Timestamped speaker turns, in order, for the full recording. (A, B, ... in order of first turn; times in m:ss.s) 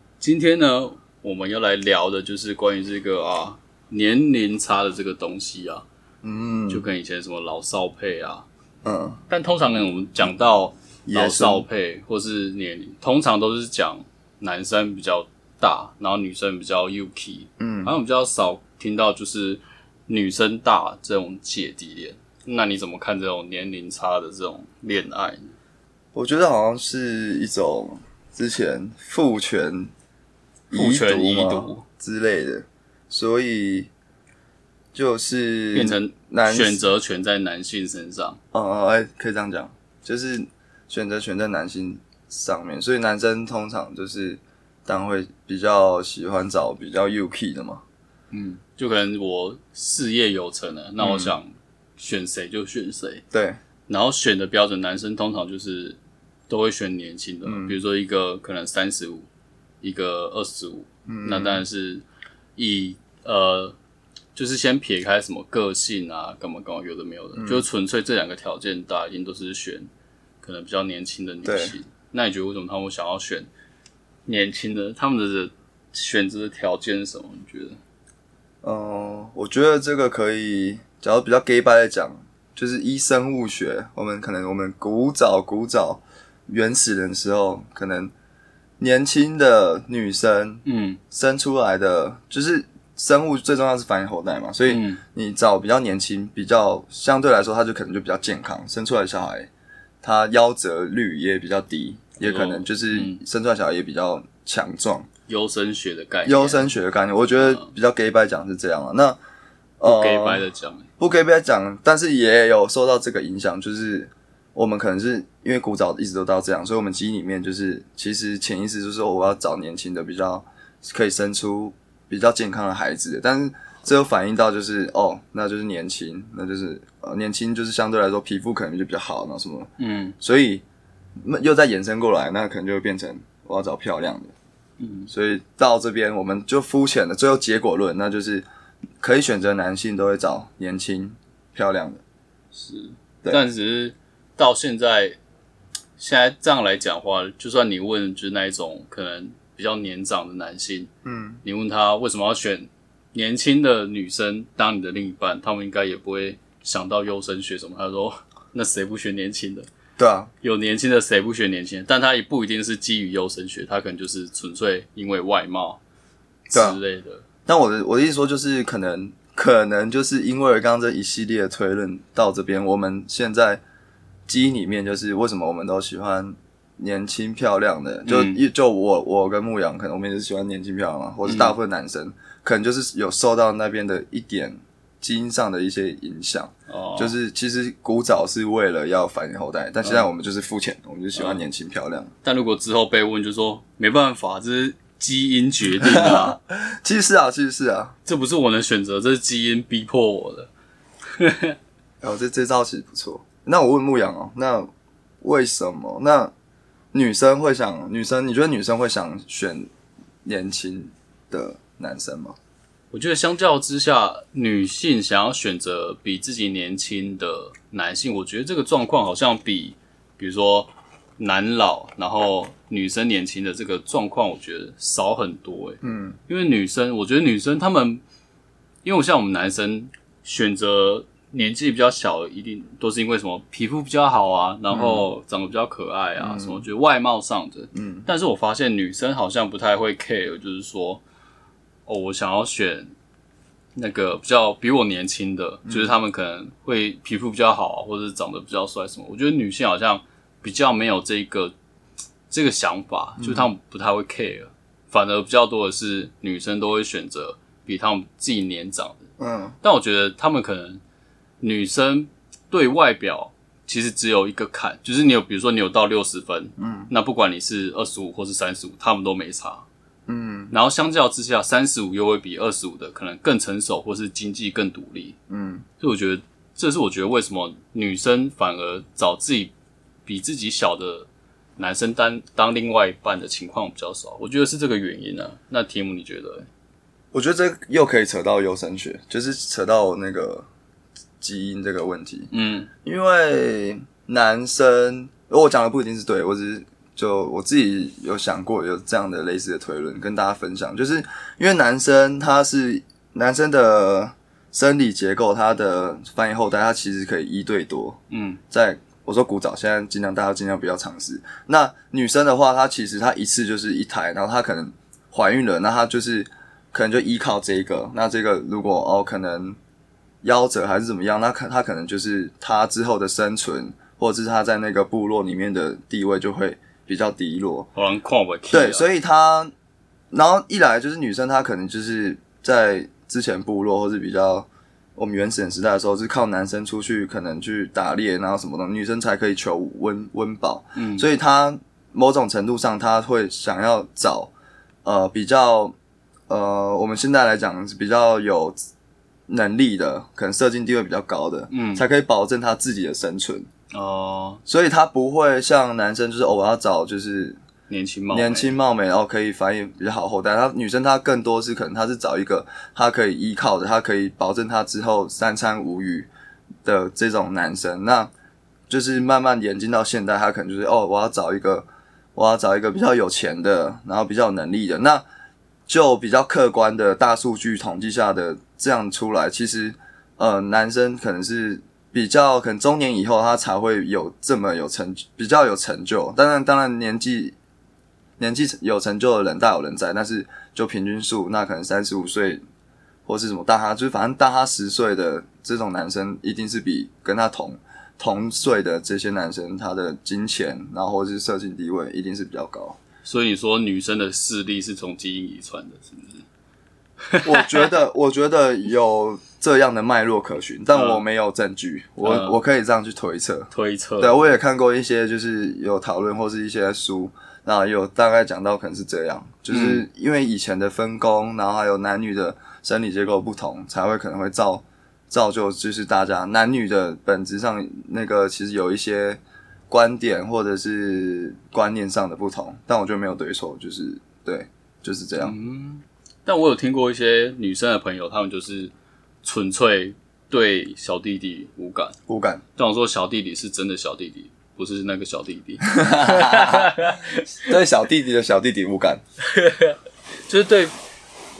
0:00.2-0:05.8 A
0:06.2-0:06.8 B
0:06.7-0:08.4 A
0:08.8-0:09.2 B
0:09.3-0:25.5 A
0:11.1-0:11.7 B
0:17.6-0:17.9 B
0:26.1-0:29.9 B
0:30.7-0:33.9 B
0:30.7-0:31.8 A
0:34.9-0:36.8 B
0:35.7-0:38.4 A
0:38.5-0:47.8 B
0:48.3-0:53.2 A
0:51.0-0:51.3 B
0:53.3-0:53.6 B
0:53.9-0:59.3 A
0:57.4-0:57.8 B
0:59.8-1:02.0 A
1:01.1-1:01.6 B
1:02.6-1:03.8 A
1:04.4-1:09.9 A
1:07.4-1:07.6 B
1:10.4-1:13.5 A
1:11.4-1:11.8 B
1:14.3-1:17.8 A
1:18.6-1:28.1 B
1:28.8-1:39.5 B
1:30.6-1:31.0 A
1:34.7-1:35.0 A
1:40.0-1:45.1 B
1:42.2-1:43.2 A
1:45.3-1:46.7 A
1:46.2-1:49.2 B
1:47.4-1:47.7 A
1:49.8-1:50.4 B
1:49.8-1:50.9 A
1:51.0-2:10.6 B
2:09.8-2:10.2 A
2:11.2-2:14.3 B
2:14.8-2:15.1 A
2:15.1-2:18.5 B
2:19.0-2:22.0 B
2:22.5-2:25.2 A
2:26.0-2:30.9 A
2:31.0-2:31.4 B
2:31.4-2:39.7 A
2:40.0-2:40.3 B
2:40.4-2:45.8 A
2:46.5-2:46.8 B
2:46.5-2:47.2 A
2:47.5-2:53.6 B
2:54.3-3:12.1 B
2:58.1-2:58.4 A
3:01.2-3:01.6 A
3:06.7-3:07.2 A
3:11.2-3:11.4 A
3:12.2-3:16.4 A
3:15.8-3:18.0 B
3:18.1-3:20.5 A
3:21.2-3:21.6 A
3:22.0-3:24.7 B
3:25.2-3:26.3 B
3:26.9-3:29.7 B
3:30.2-3:32.4 B
3:32.9-3:48.0 A
3:45.8-3:46.2 B
3:48.8-4:01.0 A
3:54.7-3:55.1 B
3:56.2-3:56.6 B
3:57.7-3:58.1 B
4:01.9-4:02.9 A
4:03.8-4:11.5 A
4:05.7-4:05.9 B
4:12.3-4:19.1 A
4:13.2-4:13.5 B
4:19.2-4:19.6 B
4:19.6-4:20.8 A
4:21.4-4:29.6 A
4:26.6-4:26.9 B
4:30.1-4:30.5 B
4:30.5-4:35.2 A
4:35.3-4:35.6 B
4:35.8-4:39.5 A
4:40.1-4:46.5 A
4:47.1-4:50.5 B
4:51.2-4:52.3 B
4:52.3-4:52.7 A
4:52.8-5:08.0 B
5:08.1-5:08.4 A
5:08.5-5:19.6 B
5:20.2-5:27.7 B
5:27.8-5:28.9 A
5:28.5-5:29.5 B
5:30.1-5:44.3 B
5:40.8-5:41.1 A
5:44.8-5:45.8 B
5:46.3-5:48.6 B
5:49.3-5:53.5 B
5:51.5-5:51.8 A
5:53.7-5:54.4 A
5:54.5-5:57.4 B
5:57.7-5:58.5 A
5:58.1-6:06.1 B
6:06.6-6:08.1 B
6:08.7-6:15.0 B
6:15.7-6:27.4 B
6:28.2-6:32.4 B
6:33.1-6:42.8 B
6:43.0-6:46.2 A
6:47.1-6:47.6 A
6:47.2-7:15.3 B
6:50.7-6:51.0 A
6:52.0-6:52.4 A
6:53.5-6:54.2 A
6:59.5-6:59.8 A
7:15.2-7:22.0 A
7:22.1-7:22.4 B
7:22.6-7:27.3 A
7:25.7-7:29.0 B
7:29.2-7:30.7 A